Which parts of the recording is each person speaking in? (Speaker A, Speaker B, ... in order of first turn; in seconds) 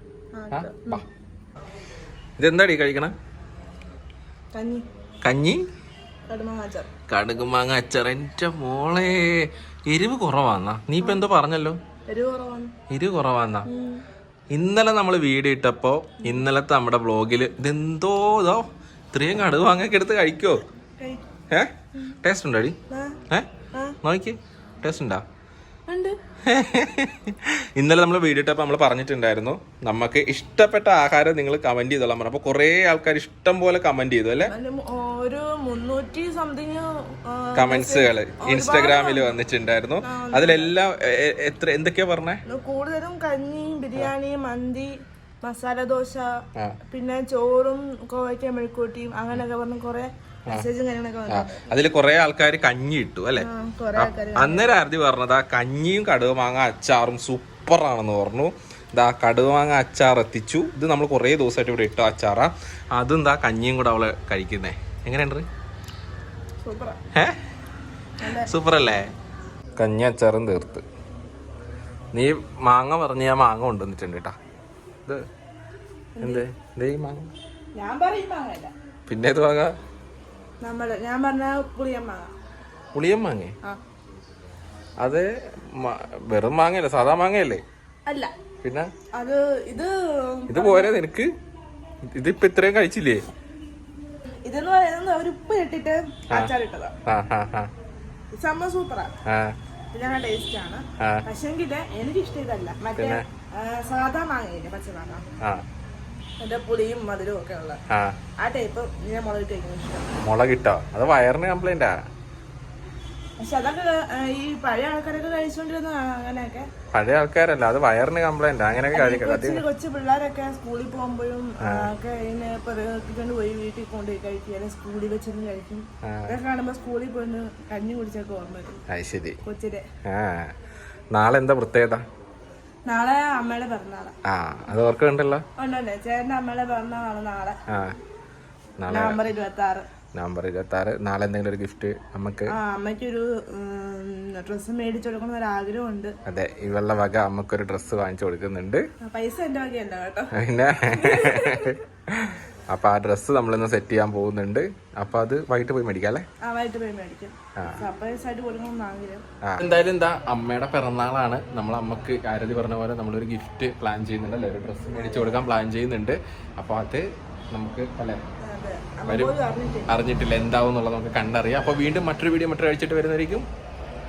Speaker A: 0.3-1.0, 4.5-4.8, 6.3-6.9, 12.1-12.7, 13.7-14.0, 21.0-21.2, 22.9-23.2, 25.9-26.2, 34.5-39.3, 40.0-40.7, 42.5-44.9, 45.4-46.3, 46.9-51.7, 53.4-54.7, 66.6-67.0, 68.2-68.5, 76.2-76.4, 77.8-78.7, 80.6-82.3, 88.1-88.3, 89.1-90.9, 94.5-96.9, 98.3-99.1, 99.9-105.2, 106.4-107.8, 108.4-110.1, 113.4-116.7, 118.9-128.8, 129.4-129.8, 132.9-134.1, 135.6-137.6, 138.9-139.8, 142.5-146.1, 149.0-150.3, 150.9-151.8, 156.4-159.2, 164.9-165.5, 168.4-169.9
Speaker B: 0.5-1.0, 2.4-3.1, 5.2-5.6, 7.1-11.8, 12.9-13.7, 14.5-20.6, 22.2-22.8, 24.0-25.2, 26.4-34.5, 37.5-42.4, 51.3-65.5, 68.3-69.1, 69.8-70.8, 72.1-74.3, 76.2-77.3, 79.1-79.7, 82.9-83.5, 85.0-87.6, 88.6-88.9, 90.5-91.3, 92.1-93.2, 97.0-97.7, 99.2-99.5, 101.0-101.2, 103.0-103.2, 107.9-108.2, 110.2-111.9, 116.9-119.6, 121.6-121.9, 126.0-126.4, 128.9-129.4, 130.1-130.5, 131.1-132.0, 134.2-135.4, 137.7-137.9, 138.8-139.2, 140.1-142.5, 146.2-148.8, 150.3-156.2, 159.4-168.2, 169.1-169.3, 169.9-173.4